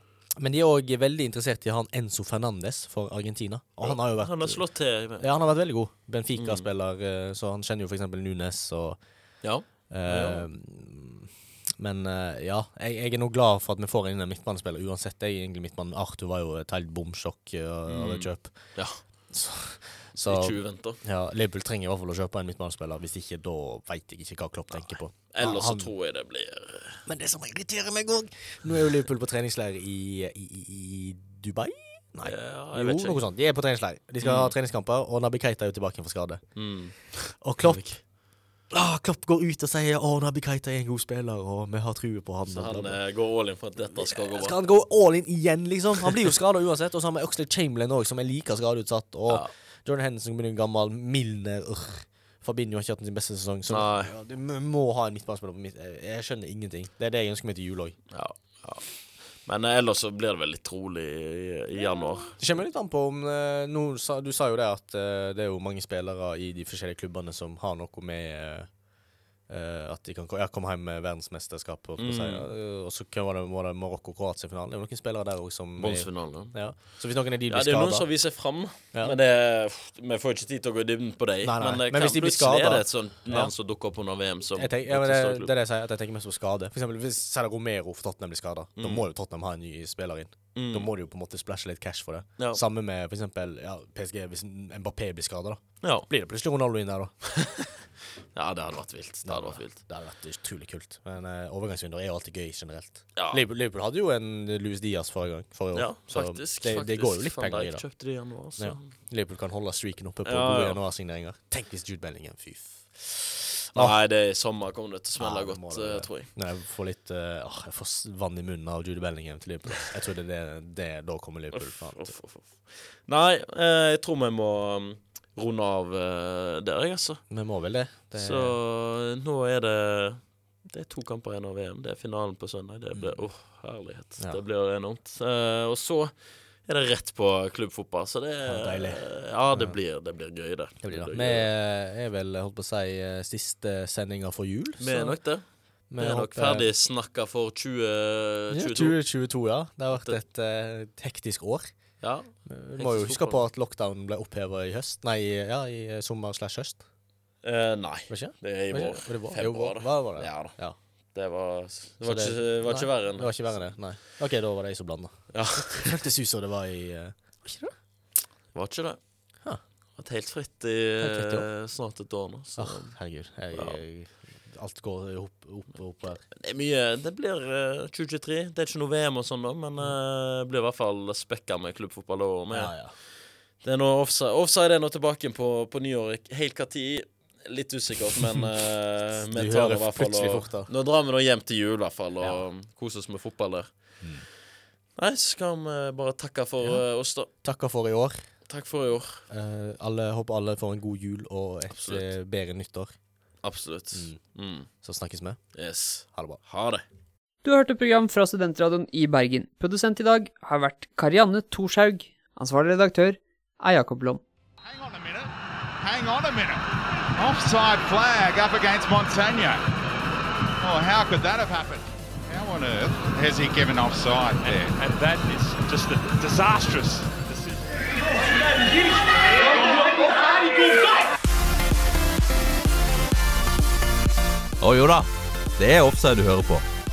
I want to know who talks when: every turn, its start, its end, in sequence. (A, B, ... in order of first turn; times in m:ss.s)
0:00.4-0:25.9 A
0:03.8-0:05.3 B
0:06.4-0:06.7 B
0:09.4-0:10.4 B
0:17.9-0:19.3 B
0:20.2-0:21.0 B
0:24.7-0:27.0 B
0:27.1-0:43.0 A
0:32.2-0:33.2 B
0:34.2-0:34.6 B
0:36.6-0:38.0 B
0:42.5-0:44.6 B
0:43.9-0:58.0 A
0:53.7-0:54.1 B
0:58.1-1:02.4 B
1:02.4-1:08.8 A
1:09.5-1:19.2 A
1:12.0-1:12.5 B
1:15.8-1:16.9 B
1:17.5-1:25.5 B
1:21.4-1:23.6 A
1:24.6-1:37.7 A
1:28.8-1:29.0 B
1:30.6-1:30.9 B
1:35.8-1:36.1 B
1:38.4-1:39.8 B
1:39.2-1:54.0 A
1:43.2-1:43.4 B
1:45.7-1:48.9 B
1:50.2-1:50.8 B
1:53.7-1:56.3 B
1:55.2-2:02.2 A
2:01.5-2:07.3 B
2:07.3-2:08.6 A
2:08.2-2:21.5 B
2:12.9-2:13.3 A
2:18.4-2:19.8 A
2:20.8-2:25.4 A
2:24.8-2:29.0 B
2:25.9-2:26.7 A
2:28.5-2:31.7 A
2:29.9-2:30.2 B
2:32.0-2:33.5 B
2:32.5-2:36.8 A
2:37.4-2:40.6 B
2:38.1-2:40.8 A
2:41.1-2:43.7 B
2:42.0-2:47.7 A
2:45.3-2:45.9 B
2:48.5-2:49.0 B
2:50.0-2:53.0 B
2:51.0-2:51.5 A
2:52.6-2:56.2 A
2:56.3-3:02.8 B
3:02.5-3:02.9 A
3:03.6-3:14.0 B
3:09.2-3:10.7 A
3:15.0-3:17.3 B
3:16.6-3:18.3 A
3:18.5-3:19.2 B
3:19.3-3:23.0 A
3:21.7-3:22.1 B
3:23.4-3:24.7 B
3:23.9-3:25.5 A
3:25.6-3:26.8 B
3:26.0-3:26.4 A
3:27.4-3:34.2 C
3:34.7-3:35.2 D
3:35.8-3:36.5 D
3:37.2-3:39.5 D
3:40.7-3:41.8 D
3:42.3-3:44.7 D
3:43.4-3:47.6 E
3:54.6-3:56.7 F